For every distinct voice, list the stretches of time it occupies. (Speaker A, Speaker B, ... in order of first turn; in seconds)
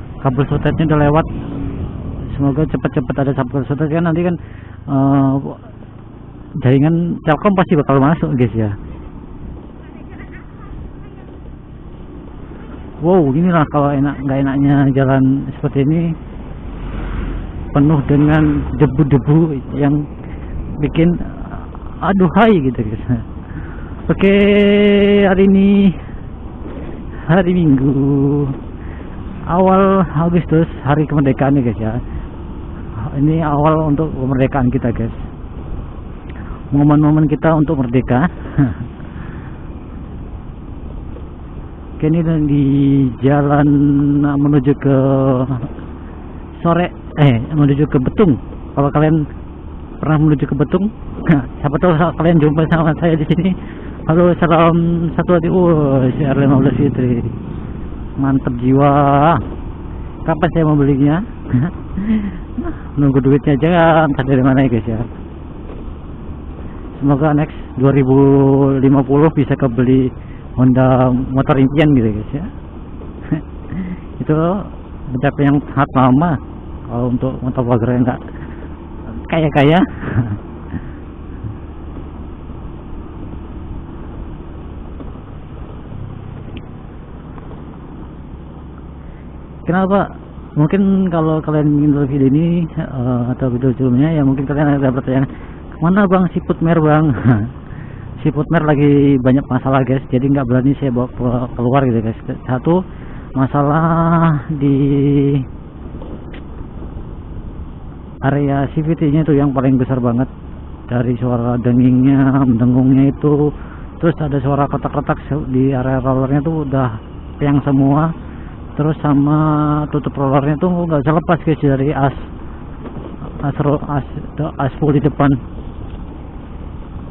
Speaker A: 0.2-5.6, 6.6-8.8, 13.0-16.1, 17.7-20.0, 20.8-23.2, 24.1-26.0, 27.3-28.6, 29.5-32.0, 33.0-35.2, 36.7-38.9, 42.0-45.7, 46.6-49.2, 50.0-57.3, 58.2-59.5, 60.2-65.1, 67.0-72.5, 73.3-78.2, 79.1-80.4, 89.7-97.5, 98.2-102.8, 103.4-105.5, 108.3-110.3, 110.9-118.1, 118.8-122.2, 123.4-125.4